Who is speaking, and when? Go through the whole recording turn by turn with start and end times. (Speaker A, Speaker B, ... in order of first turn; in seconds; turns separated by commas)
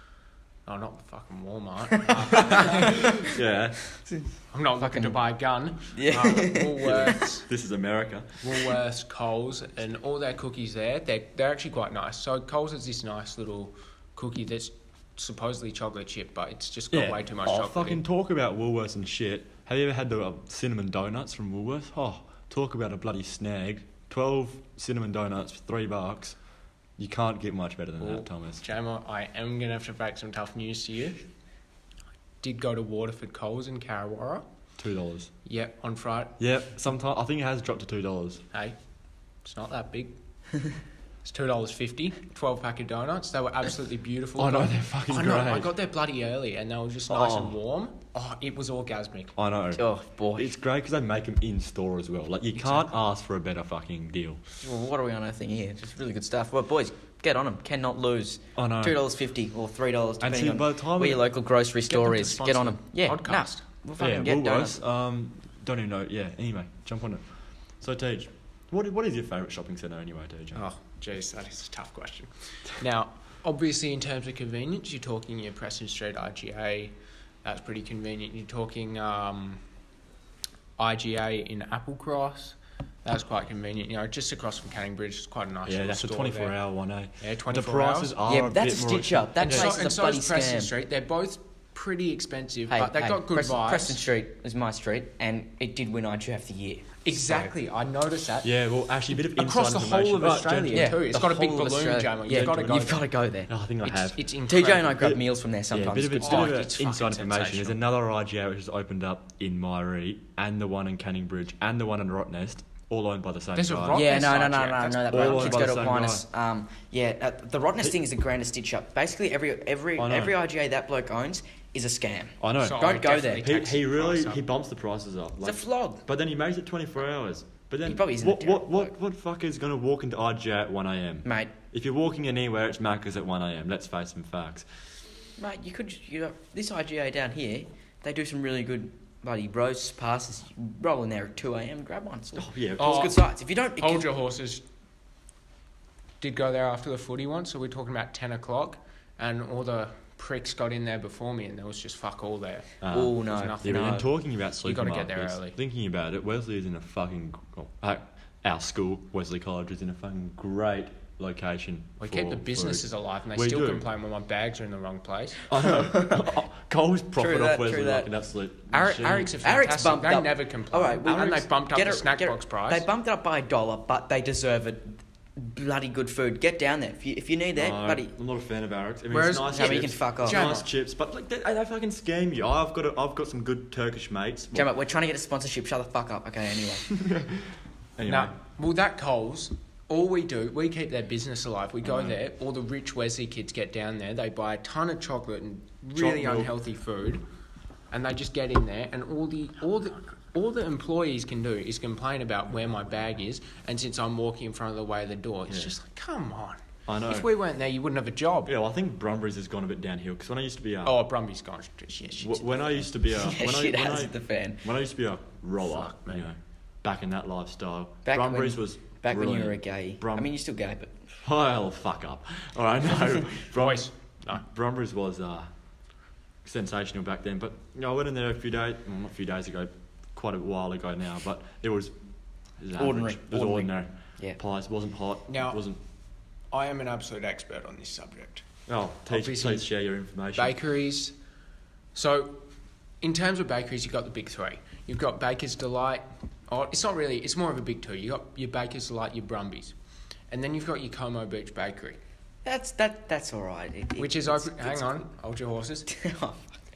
Speaker A: 0.7-3.1, Speaker B: 2.5-3.0, Speaker C: 2.6-4.0, Speaker B: 4.0-5.2, Speaker A: 4.5-7.5, Speaker B: 5.9-7.1, Speaker C: 6.8-8.6, Speaker A: 8.4-18.0, Speaker C: 16.9-26.4, Speaker C: 27.0-28.6, Speaker A: 28.0-31.2, Speaker A: 32.4-34.4, Speaker C: 34.8-35.3, Speaker A: 35.4-36.4, Speaker C: 36.4-38.5, Speaker A: 39.4-40.1, Speaker A: 41.2-49.3, Speaker C: 44.4-45.7, Speaker C: 47.1-47.5, Speaker C: 49.4-54.4, Speaker B: 49.7-50.5, Speaker A: 52.6-52.9, Speaker B: 54.6-64.8, Speaker C: 58.5-59.0, Speaker C: 60.2-61.2, Speaker A: 61.9-63.6, Speaker C: 64.0-70.6, Speaker A: 70.5-79.6, Speaker A: 80.8-86.5, Speaker C: 85.7-89.8, Speaker A: 87.2-88.1, Speaker B: 88.2-90.7, Speaker A: 89.4-94.0, Speaker B: 92.7-97.5, Speaker A: 97.0-98.5, Speaker C: 98.4-101.2, Speaker A: 99.2-103.0, Speaker B: 100.7-103.5, Speaker C: 102.3-102.8, Speaker C: 103.5-104.3, Speaker A: 103.8-105.0, Speaker B: 104.5-106.6, Speaker C: 104.9-114.1, Speaker A: 106.2-107.8, Speaker A: 113.5-115.6, Speaker B: 113.9-123.5, Speaker C: 115.1-116.2, Speaker C: 120.0-120.4, Speaker C: 122.4-134.7, Speaker A: 122.6-124.4, Speaker B: 125.4-126.0, Speaker B: 127.8-128.9, Speaker B: 131.2-131.5, Speaker B: 135.4-144.1, Speaker C: 142.3-143.1, Speaker A: 142.8-143.2, Speaker A: 143.8-144.6, Speaker A: 146.2-154.0, Speaker C: 152.8-163.8, Speaker B: 152.9-154.1, Speaker A: 154.6-155.6, Speaker A: 162.0-165.4, Speaker C: 165.5-169.4, Speaker B: 165.7-166.3, Speaker B: 167.2-168.1, Speaker A: 168.7-172.8, Speaker B: 169.4-178.1, Speaker C: 177.6-184.7, Speaker A: 179.1-180.7, Speaker B: 179.5-180.5, Speaker B: 184.5-186.9, Speaker C: 187.0-188.3, Speaker A: 188.0-197.2, Speaker C: 191.8-192.2, Speaker C: 195.9-196.5, Speaker A: 197.9-208.5, Speaker C: 206.9-207.3, Speaker C: 208.4-211.0, Speaker A: 210.8-212.5, Speaker C: 212.2-220.3, Speaker B: 213.1-214.6, Speaker A: 215.6-216.3, Speaker B: 218.0-220.9, Speaker C: 221.2-225.5, Speaker A: 223.5-224.4, Speaker C: 226.4-231.9, Speaker C: 232.6-235.8, Speaker B: 232.8-234.4, Speaker A: 235.3-235.6, Speaker A: 236.5-238.4, Speaker C: 238.7-240.6, Speaker A: 239.1-239.7, Speaker A: 240.3-241.1, Speaker A: 241.9-242.4, Speaker A: 243.0-249.7, Speaker A: 250.3-252.0, Speaker B: 252.4-255.0, Speaker A: 254.0-255.9, Speaker B: 255.9-256.6